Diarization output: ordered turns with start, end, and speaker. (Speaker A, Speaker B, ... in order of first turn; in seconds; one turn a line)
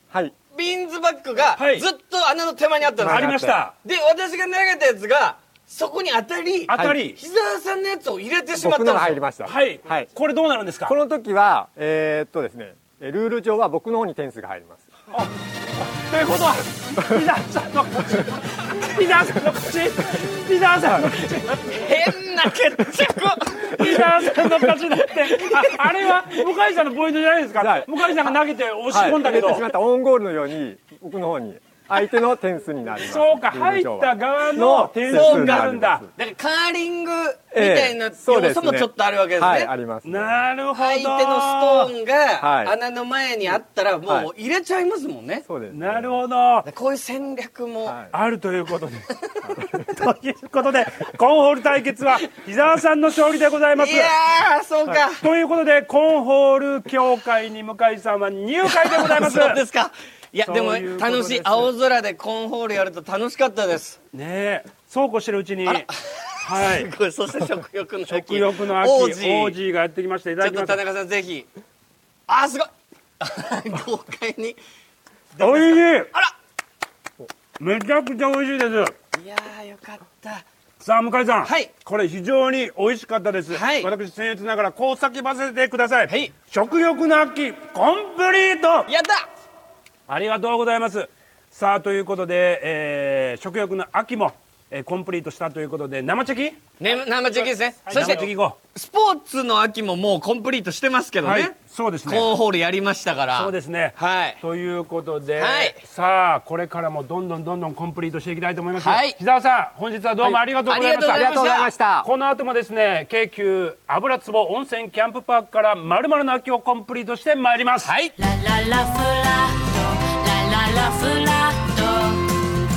Speaker A: 0.5-3.3
Speaker B: 1.6-1.9
Speaker C: 3.0-3.6
Speaker B: 3.0-3.7
Speaker A: 3.8-9.2
Speaker B: 6.7-7.2
Speaker C: 6.7-7.0
Speaker C: 8.6-10.1
Speaker B: 9.4-10.9
Speaker C: 10.9-14.9
Speaker B: 15.1-21.9
Speaker A: 21.6-26.4
Speaker B: 23.5-29.7
Speaker C: 27.6-27.9
Speaker C: 28.9-36.1
Speaker B: 33.0-36.0
Speaker A: 35.1-39.7
Speaker C: 37.5-40.4
Speaker B: 40.0-41.9
Speaker A: 40.7-45.5
Speaker C: 42.4-42.7
Speaker C: 45.5-46.2
Speaker B: 45.7-46.7
Speaker A: 46.6-48.0
Speaker C: 47.9-48.1
Speaker B: 48.1-54.1
Speaker C: 49.5-49.8
Speaker A: 53.8-55.2
Speaker B: 54.9-59.6
Speaker A: 58.6-64.0
Speaker B: 60.5-61.7
Speaker B: 64.1-65.9
Speaker A: 65.6-69.5
Speaker B: 66.4-66.9
Speaker B: 68.1-70.8
Speaker A: 70.4-71.5
Speaker A: 72.3-74.6
Speaker A: 75.3-76.3
Speaker B: 75.4-76.1
Speaker B: 77.6-78.9
Speaker A: 79.1-80.4
Speaker B: 80.8-88.9
Speaker A: 81.4-81.7
Speaker A: 83.5-83.9
Speaker A: 86.1-86.3
Speaker A: 88.9-89.2
Speaker B: 90.1-98.6
Speaker A: 96.8-104.4
Speaker B: 101.2-102.3
Speaker B: 103.3-117.9
Speaker A: 105.4-105.8
Speaker A: 108.8-109.2
Speaker A: 110.2-111.7
Speaker C: 111.0-112.1
Speaker A: 117.8-118.1
Speaker D: 118.2-122.5